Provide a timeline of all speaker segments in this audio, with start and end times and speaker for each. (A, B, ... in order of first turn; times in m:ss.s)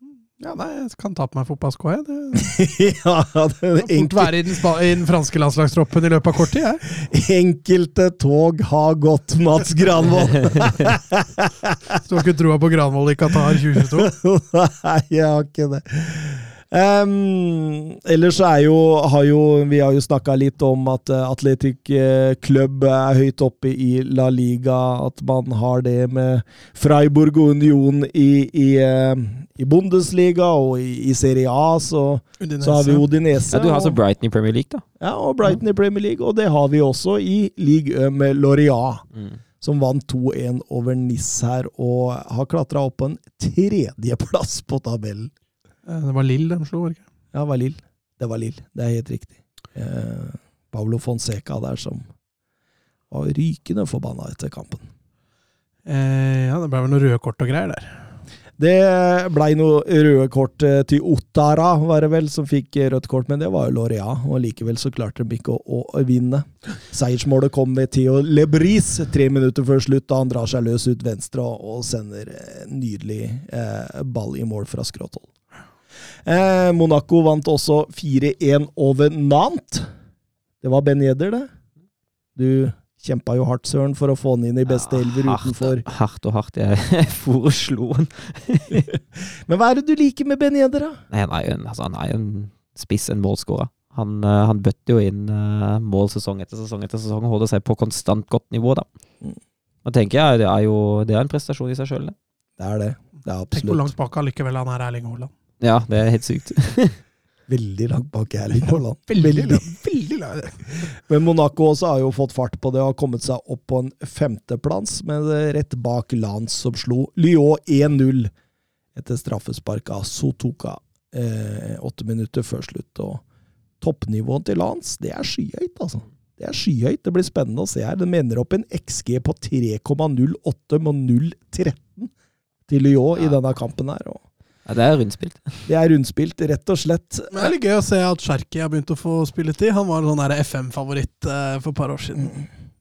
0:00.4-0:02.5 A
0:02.4-0:04.5 B
0:03.8-0:06.9 A
0:07.0-0:12.0 B
0:12.0-0:14.1 A
0:13.5-0:34.0 B
0:32.4-0:33.0 A
0:33.5-0:34.8 C
0:35.0-0:39.1 B
0:39.6-0:45.3 B
0:45.9-0:47.0 A
0:47.3-0:52.1 B
0:53.1-0:54.9 B
0:55.9-0:58.0 A
0:58.6-1:15.3 B
1:16.3-1:19.9 B
1:20.6-1:21.5 B
1:22.4-1:25.8 B
1:24.7-1:28.8 C
1:28.7-1:31.0 B
1:31.1-1:38.9 C
1:39.8-1:42.2 C
1:42.6-1:43.9 B
1:43.5-1:45.3 A
1:45.6-1:47.0 C
1:47.5-1:49.7 B
1:48.6-1:50.9 A
1:51.0-1:58.3 B
1:59.0-2:03.2 B
2:03.8-2:12.1 B
2:12.7-2:14.2 B
2:14.7-2:15.6 C
2:15.7-2:17.5 B
2:17.3-2:22.4 A